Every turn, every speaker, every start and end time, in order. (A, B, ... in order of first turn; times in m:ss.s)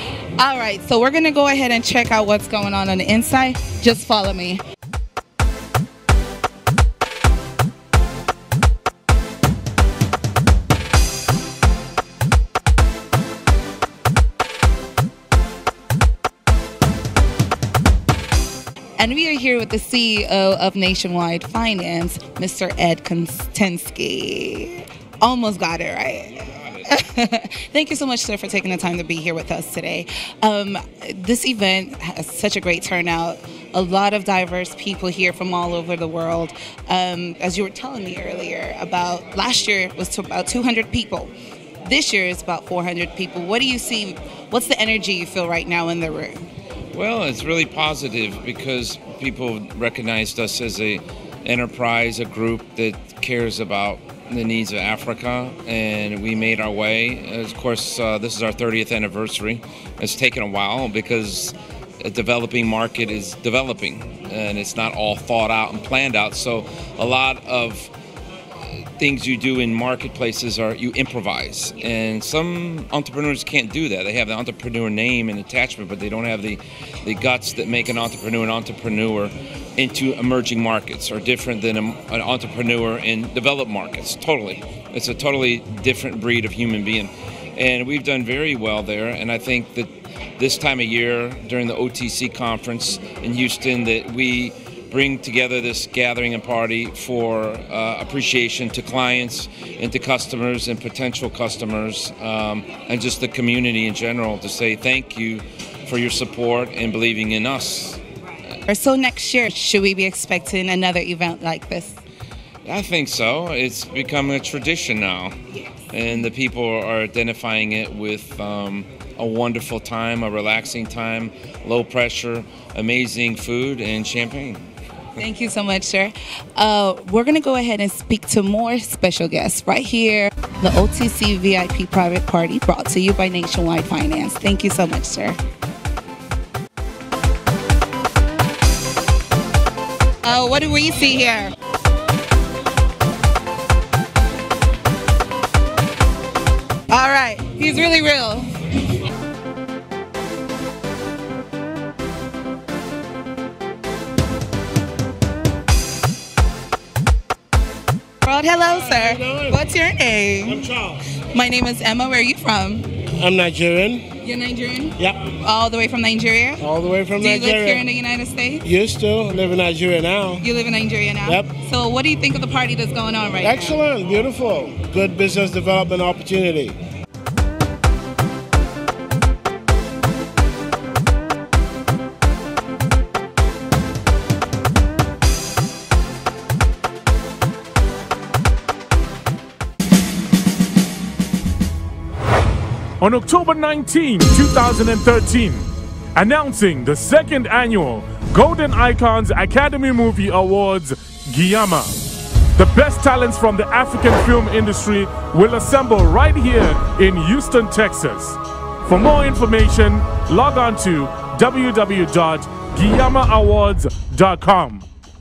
0:00.4-0:04.6 A
0:19.0-0:41.3 A
0:26.2-0:26.9 B
0:41.8-0:46.4 A
0:46.9-1:07.9 B
1:08.7-1:48.0 B
1:48.7-1:52.0 A
1:52.6-1:55.4 B
1:55.9-2:04.6 B
2:05.2-2:15.4 A
2:20.2-2:21.5 A
2:26.9-2:28.5 A
2:38.2-2:43.0 A
2:38.8-2:39.6 C
2:40.5-2:41.0 C
2:43.1-2:44.1 C
2:44.2-2:46.6 A
2:45.0-2:45.2 C
2:46.6-2:47.8 C
2:47.2-2:48.6 A
2:48.6-2:50.4 C
2:50.4-2:53.8 A
2:51.2-2:51.5 C
2:53.4-2:56.8 C
3:13.0-3:22.0 D
3:22.5-3:34.9 D